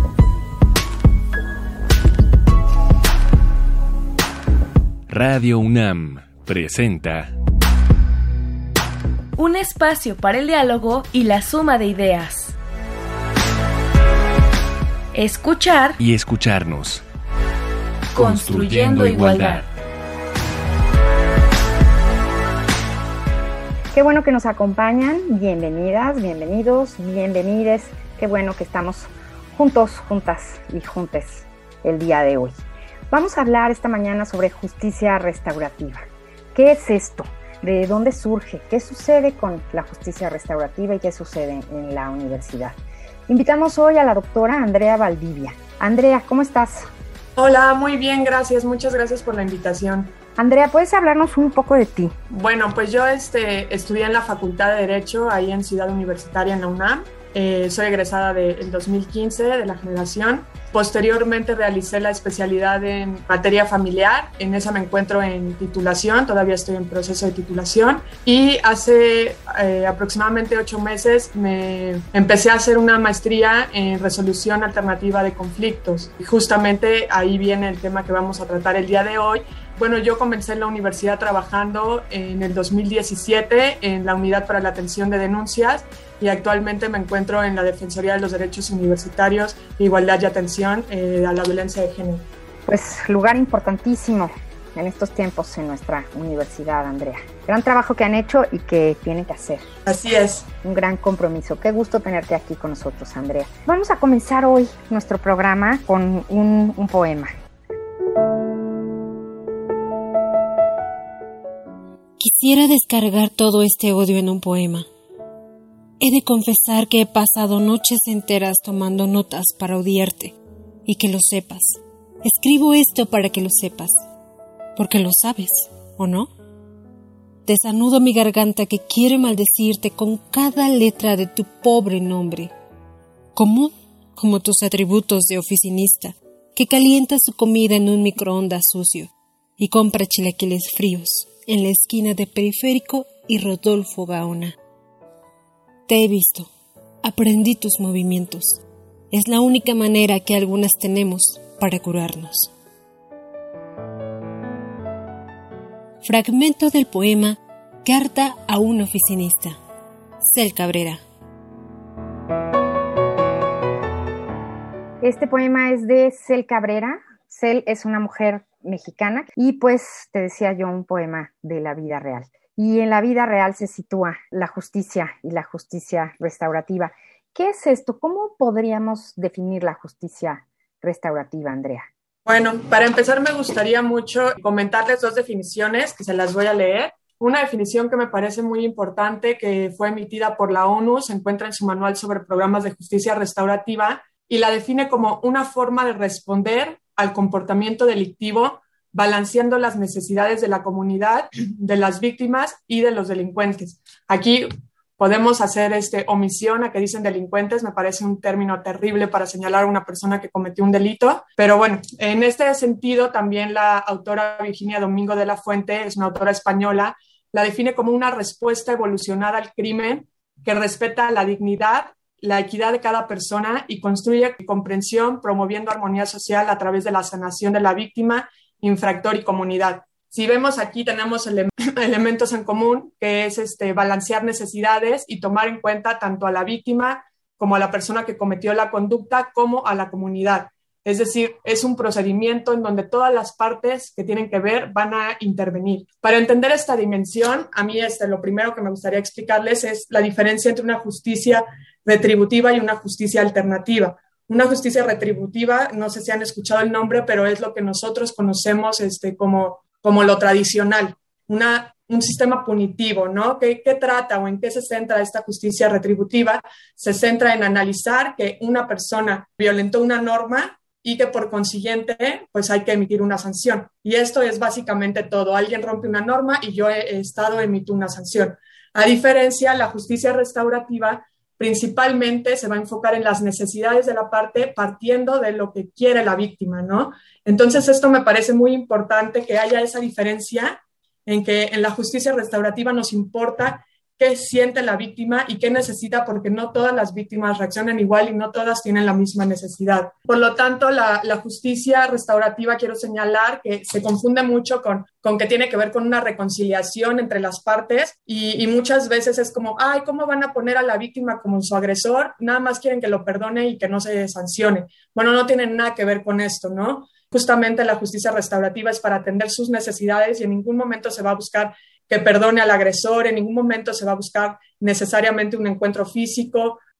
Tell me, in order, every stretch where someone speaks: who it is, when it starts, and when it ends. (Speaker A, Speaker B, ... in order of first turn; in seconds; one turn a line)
Speaker A: 5.1-7.3
Speaker B: 9.4-12.5
Speaker B: 15.1-16.0
Speaker A: 16.0-17.0
Speaker B: 18.1-19.6
Speaker A: 18.1-19.6
Speaker C: 23.9-32.6
Speaker C: 33.1-42.8
Speaker C: 43.3-46.9
Speaker D: 47.4-50.1
Speaker C: 50.4-52.1
Speaker D: 52.3-92.3
Speaker C: 92.7-99.7
Speaker D: 99.8-100.5
Speaker C: 100.6-107.3
Speaker E: 112.2-114.9
Speaker E: 116.0-124.0
Speaker E: 124.8-126.3
Speaker E: 127.5-132.5
Speaker E: 133.3-144.5
Speaker E: 145.9-146.5
Speaker E: 147.0-148.6
Speaker E: 149.1-152.5
Speaker E: 156.0-159.6
Speaker E: 160.2-161.0
Speaker C: 165.0-181.9
Speaker D: 182.2-204.5
Speaker D: 205.0-326.6